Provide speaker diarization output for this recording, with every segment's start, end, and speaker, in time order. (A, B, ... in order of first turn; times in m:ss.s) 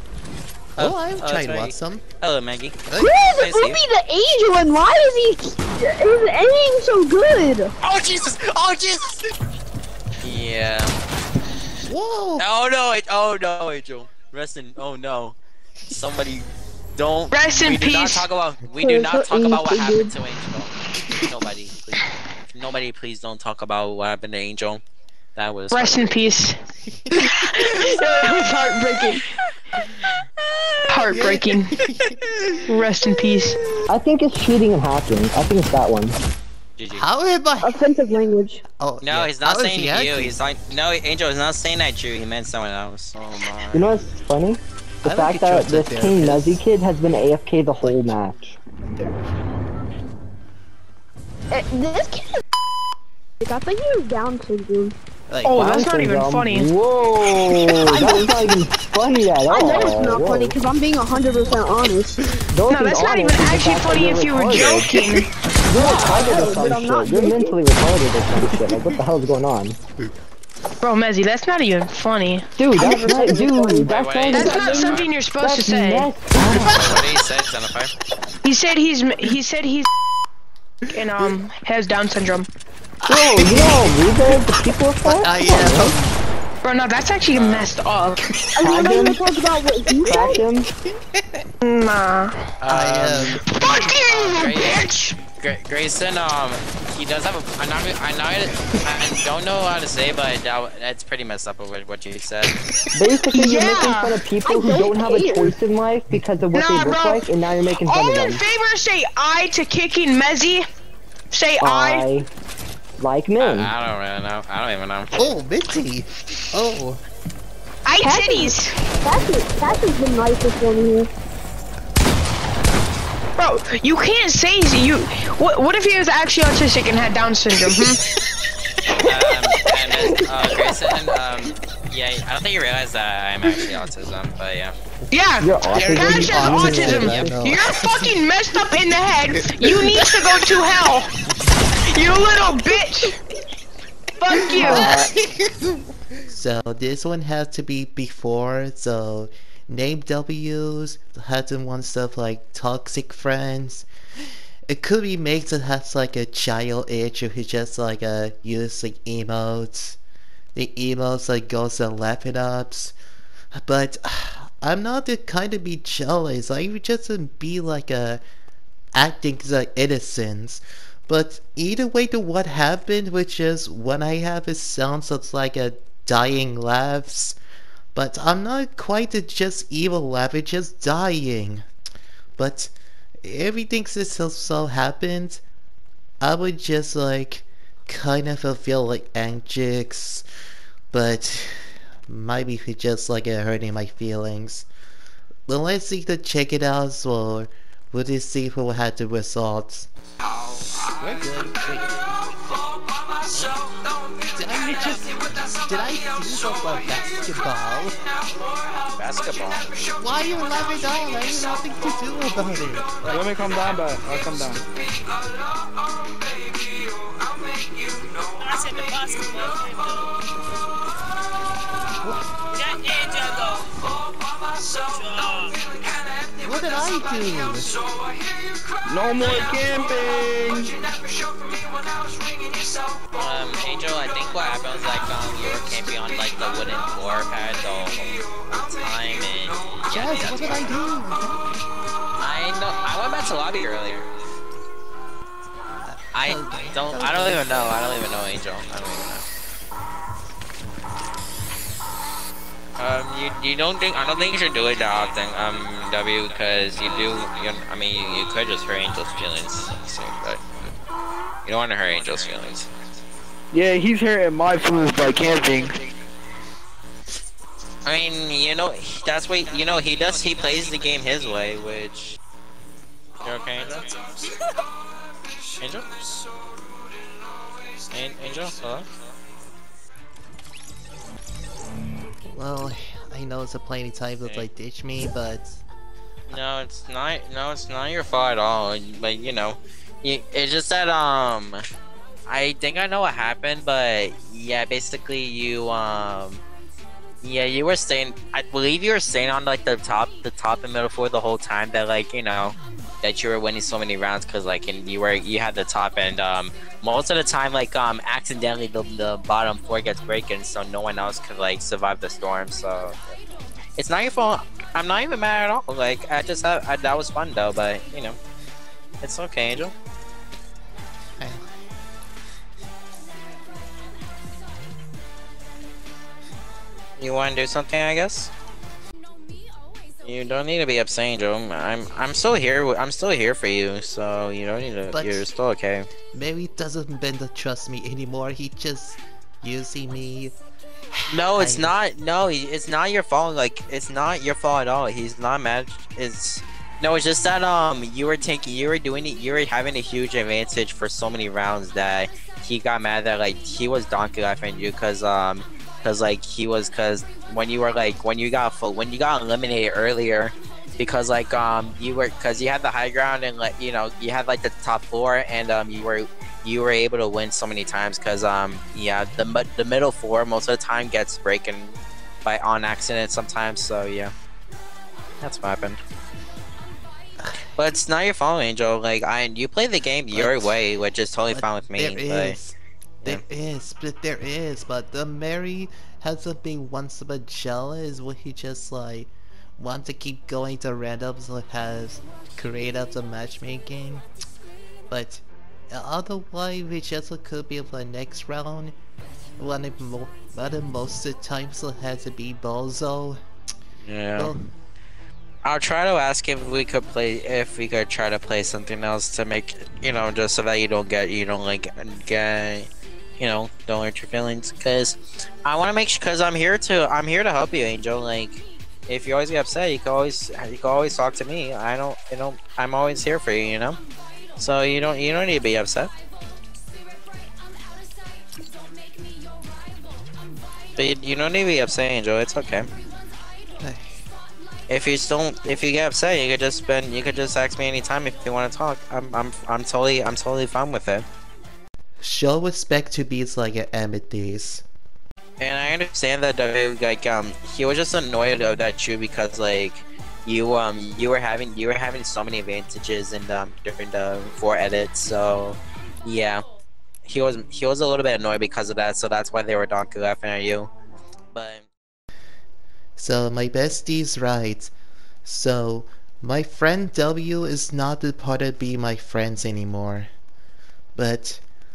0:00.8-0:02.0 A
0:00.8-0:02.8 B
0:02.9-0:03.2 A
0:03.0-0:07.7 C
0:03.4-0:03.8 B
0:07.8-0:09.3 B
0:10.2-0:11.0 B
0:11.9-0:12.5 A
0:12.4-0:15.4 B
0:15.9-0:24.8 B
0:17.3-0:18.2 D
0:18.8-0:20.1 C
0:25.3-0:26.3 B
0:25.7-0:26.6 D
0:27.1-0:27.6 A
0:27.1-0:29.2 D
0:30.9-0:31.7 D
0:31.1-0:32.4 A
0:32.6-0:33.6 D
0:33.9-0:36.2 E
0:36.8-0:37.0 B
0:36.9-0:37.8 A
0:37.6-0:38.6 C
0:38.6-0:40.4 A
0:39.0-0:44.0 B
0:43.7-0:48.6 E
0:45.0-0:46.6 A
0:47.8-0:48.2 A
0:51.5-0:52.3 C
0:53.4-0:54.9 C
0:55.3-0:55.7 A
0:55.4-0:56.7 D
0:55.5-1:00.6 E
0:57.8-0:58.3 C
0:59.5-1:02.2 C
0:59.5-1:00.0 D
1:02.5-1:05.0 E
1:02.7-1:06.5 D
1:05.7-1:09.8 E
1:05.7-1:07.6 C
1:10.8-1:12.6 D
1:12.6-1:14.7 E
1:12.8-1:13.9 C
1:13.8-1:15.1 B
1:14.3-1:16.1 D
1:14.5-1:15.0 C
1:15.4-1:17.0 E
1:16.4-1:17.0 A
1:16.6-1:17.9 B
1:18.4-1:19.9 D
1:20.9-1:22.5 D
1:23.0-1:24.4 A
1:23.0-1:26.0 E
1:25.0-1:26.1 A
1:26.6-1:28.2 D
1:27.3-1:27.7 B
1:28.6-1:30.4 C
1:28.6-1:29.2 E
1:30.0-1:30.7 E
1:31.6-1:32.4 D
1:32.6-1:33.4 B
1:32.7-1:33.9 A
1:33.5-1:35.2 D
1:34.0-1:42.6 B
1:42.9-1:48.4 E
1:43.3-1:44.1 D
1:44.4-1:45.6 C
1:46.5-1:50.6 D
1:51.3-1:52.0 D
1:51.6-1:52.3 E
1:53.0-1:53.7 E
1:53.4-1:55.1 B
1:55.1-1:57.0 A
1:57.8-1:58.7 D
1:58.0-2:01.1 C
1:59.1-1:59.8 A
2:03.4-2:08.0 D
2:08.9-2:14.8 B
2:15.1-2:21.1 D
2:15.4-2:17.4 E
2:15.8-2:18.2 A
2:19.6-2:20.2 A
2:21.8-2:23.2 D
2:24.2-2:25.0 D
2:24.5-2:25.6 A
2:24.6-2:24.9 C
2:26.3-2:33.9 A
2:34.7-2:40.0 A
2:40.5-2:42.9 A
2:43.5-2:48.2 A
2:48.9-2:57.4 A
2:57.9-3:01.6 A
3:02.4-3:02.7 A
3:03.2-3:05.4 A
3:06.2-3:10.2 A
3:10.9-3:14.7 A
3:15.5-3:19.9 A
3:21.0-3:22.1 A
3:24.3-3:28.0 A
3:28.9-3:29.7 B
3:30.0-3:33.2 A
3:33.0-3:34.6 F
3:38.4-3:40.0 G
3:42.6-3:43.6 G
3:45.0-3:45.5 G
3:46.4-3:47.8 A
3:48.8-3:50.8 F
3:53.1-4:00.7 B
3:59.9-4:01.6 A
4:02.2-4:04.1 B
4:05.8-4:07.8 A
4:06.1-4:09.2 B
4:12.8-4:20.7 B
4:21.4-4:22.7 B
4:23.5-4:25.8 F
4:27.8-4:32.2 B
4:33.2-4:34.2 B
4:35.6-4:35.9 B
4:37.9-4:38.9 B
4:42.3-4:45.6 A
4:46.3-4:51.6 B
4:52.3-4:56.4 B
4:57.2-5:13.0 B
5:13.8-5:18.2 B
5:19.0-5:19.7 B
5:21.2-5:21.4 A
5:27.0-5:28.3 B
5:30.0-5:35.9 B
5:34.9-5:35.3 A
5:36.1-5:40.3 A
5:40.9-5:41.8 A
5:41.1-6:14.1 B
6:15.2-6:15.8 B
6:17.2-6:17.5 A
6:17.5-6:22.4 B
6:20.1-6:20.6 A
6:21.3-6:34.0 A
6:34.9-6:38.7 A
6:39.4-6:43.2 A
6:43.8-6:44.3 B
6:44.2-6:44.4 A
6:45.4-6:52.7 B
6:53.2-7:03.8 B
7:04.4-7:05.9 B
7:10.8-7:12.7 B
7:13.6-7:14.0 A
7:14.7-7:21.0 B
7:22.0-7:24.6 A
7:25.4-7:36.4 B
7:37.0-7:40.7 B
7:41.3-7:41.6 B
7:43.0-7:44.7 A
7:45.2-7:50.1 A
7:51.0-7:51.4 A